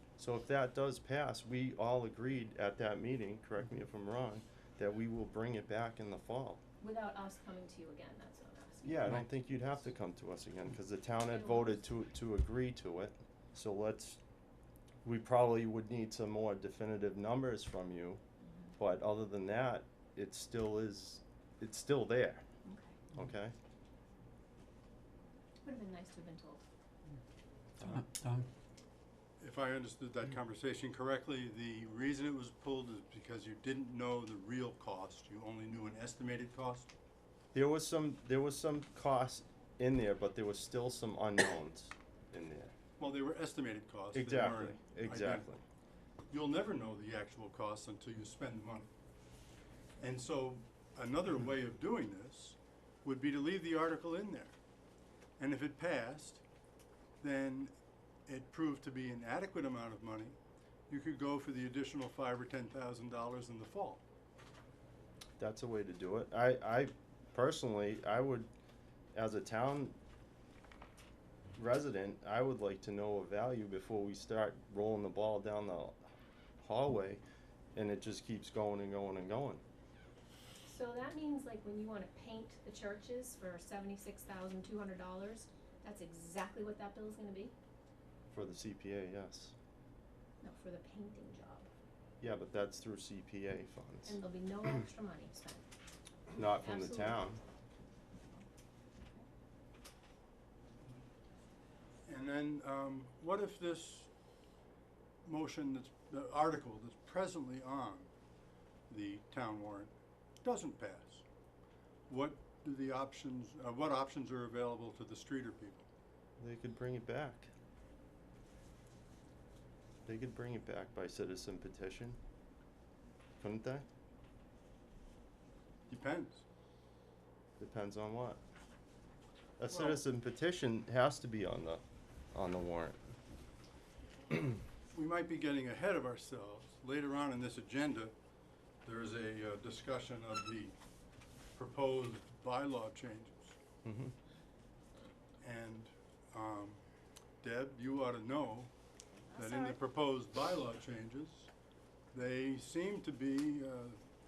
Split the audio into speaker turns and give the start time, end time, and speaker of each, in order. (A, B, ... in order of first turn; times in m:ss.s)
0:00.2-0:06.6 A
0:06.8-0:09.2 B
0:08.8-0:14.2 A
0:11.3-0:11.8 B
0:15.0-0:18.2 A
0:18.4-0:18.7 B
0:18.8-0:22.4 A
0:22.7-0:23.0 B
0:23.1-0:23.5 A
0:25.6-0:26.6 B
0:29.4-0:36.9 C
0:37.5-0:42.7 A
0:43.0-0:45.5 C
0:44.1-0:45.6 A
0:46.3-0:48.9 C
0:50.0-0:54.5 C
0:55.4-0:56.4 C
0:57.2-0:57.7 C
0:58.3-1:00.4 C
1:00.9-1:04.0 C
1:05.4-1:08.5 A
1:09.2-1:10.0 A
1:11.6-1:16.0 A
1:16.6-1:17.2 A
1:17.8-1:19.6 A
1:20.6-1:27.5 B
1:28.3-1:29.5 A
1:30.4-1:31.7 B
1:32.2-1:34.2 A
1:34.1-1:35.6 B
1:36.3-1:37.4 A
1:36.6-1:37.3 B
1:42.1-1:44.1 C
1:45.2-1:48.1 C
1:48.9-1:51.2 C
1:52.1-1:55.8 C
1:56.4-1:57.5 A
2:00.1-2:02.2 A
2:03.4-2:03.9 A
2:05.9-2:06.4 C
2:07.6-2:08.4 A
2:09.6-2:11.8 A
2:09.7-2:10.0 C
2:12.3-2:13.0 A
2:14.9-2:18.1 C
2:18.8-2:20.8 C
2:21.6-2:23.6 C
2:23.8-2:24.1 A
2:25.4-2:26.8 C
2:27.4-2:28.7 C
2:29.4-2:31.5 C
2:32.1-2:34.0 C